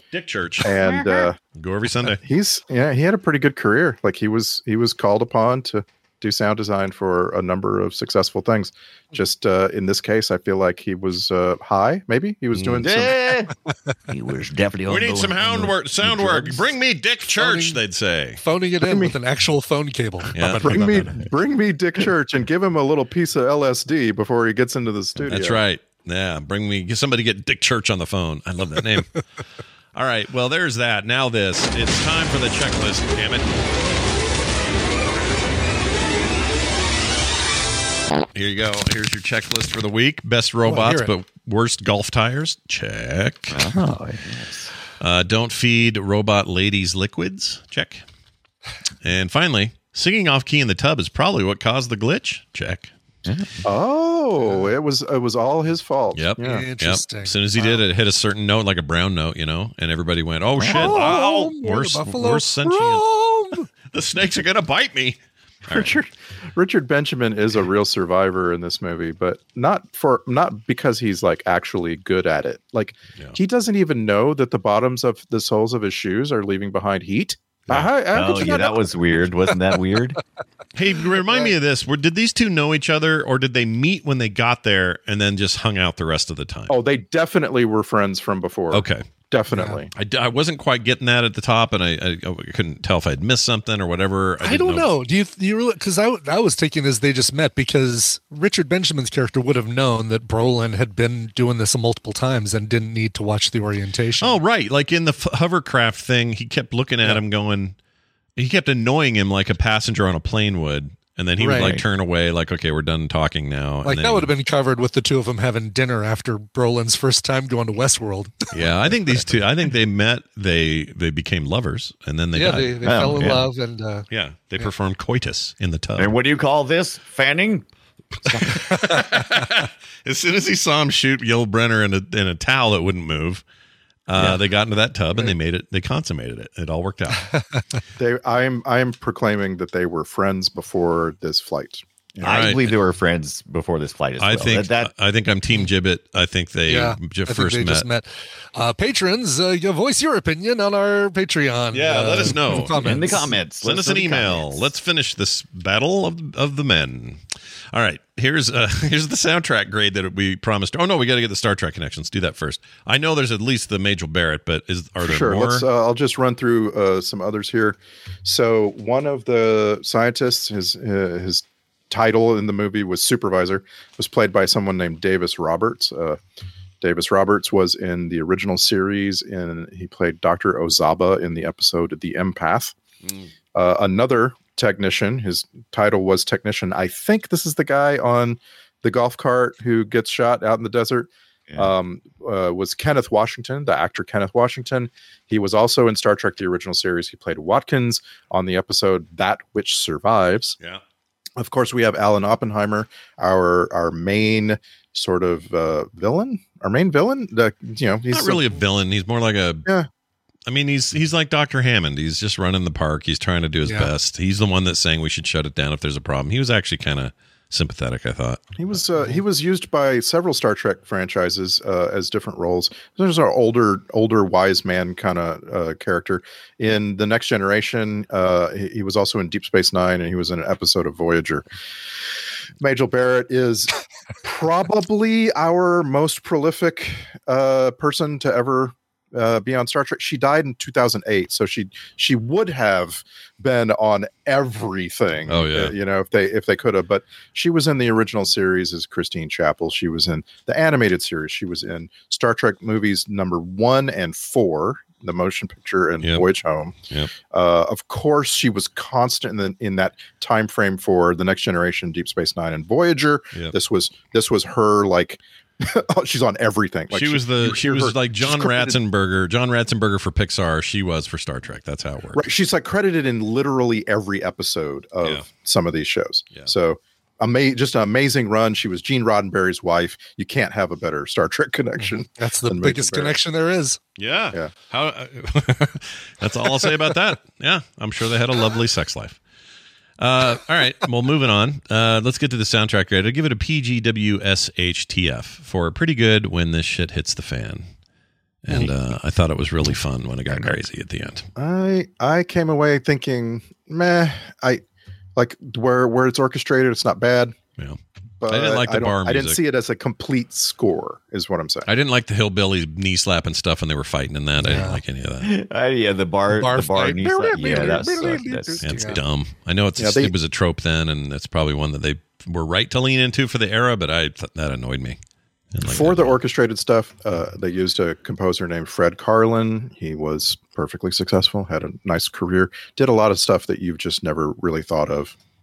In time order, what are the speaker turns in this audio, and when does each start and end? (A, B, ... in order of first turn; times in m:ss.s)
0:00.1-0:01.0 A
0:00.6-0:01.4 B
0:01.6-0:02.2 A
0:02.2-0:13.2 B
0:12.5-0:12.9 A
0:12.8-0:13.5 C
0:14.1-0:16.6 C
0:14.9-0:18.4 A
0:17.4-0:17.8 D
0:18.4-0:20.8 D
0:18.8-0:19.2 B
0:20.4-0:21.2 A
0:20.6-0:25.6 B
0:25.2-0:29.1 A
0:30.0-0:33.7 A
0:38.4-0:43.7 A
0:40.7-0:41.1 D
0:43.5-0:44.7 C
0:45.0-0:48.0 A
0:49.0-0:52.9 A
0:53.2-0:53.5 C
0:53.6-0:56.7 B
0:56.2-1:03.0 A
0:56.4-0:57.8 D
1:00.6-1:01.0 C
1:00.7-1:03.7 D
1:03.9-1:06.0 A
1:05.7-1:19.0 B
1:18.1-1:20.2 C
1:20.8-1:26.7 A
1:21.3-1:21.6 B
1:26.7-1:29.9 B
1:28.7-1:29.1 A
1:29.5-1:29.8 D
1:29.9-1:34.9 A
1:34.4-1:44.4 D
1:44.2-1:47.8 A
1:48.4-1:54.3 A
1:51.4-1:51.7 D
1:51.5-1:51.8 C
1:53.8-1:58.5 D
1:58.5-2:03.2 A
2:02.4-2:04.1 D
2:02.8-2:03.5 C
2:04.1-2:06.2 A
2:06.0-2:07.7 C
2:08.3-2:08.6 C
2:08.6-2:13.4 A
2:14.1-2:17.3 A
2:14.2-2:14.4 C
2:18.0-2:22.6 B
2:22.2-2:24.9 C
2:22.2-2:22.7 A
2:24.2-2:27.9 A
2:26.7-2:33.4 D
2:31.7-2:37.2 A
2:32.8-2:34.7 C
2:37.7-2:45.7 A
2:45.0-2:56.2 B
2:56.8-3:02.8 B
3:03.5-3:20.6 B
3:21.4-3:28.4 B
3:28.1-3:29.7 A
3:30.5-3:38.6 A
3:33.7-3:33.9 D
3:38.6-3:51.4 B
3:52.6-4:28.8 B
4:05.3-4:05.8 A
4:26.9-4:32.2 A
4:32.2-4:43.2 B
4:41.8-4:43.8 D
4:44.0-4:49.2 A
4:50.0-4:57.7 A
4:58.4-5:01.3 A
5:00.3-5:00.6 C
5:01.4-5:04.6 B
5:05.2-5:07.4 B
5:07.6-5:09.4 A
5:08.2-5:11.7 B
5:11.7-5:15.3 A
5:14.4-5:14.8 D
5:15.2-5:19.0 C
5:16.3-5:19.0 D
5:18.6-5:25.0 A
5:19.8-5:20.1 B
5:25.5-5:26.2 A
5:25.6-5:35.2 B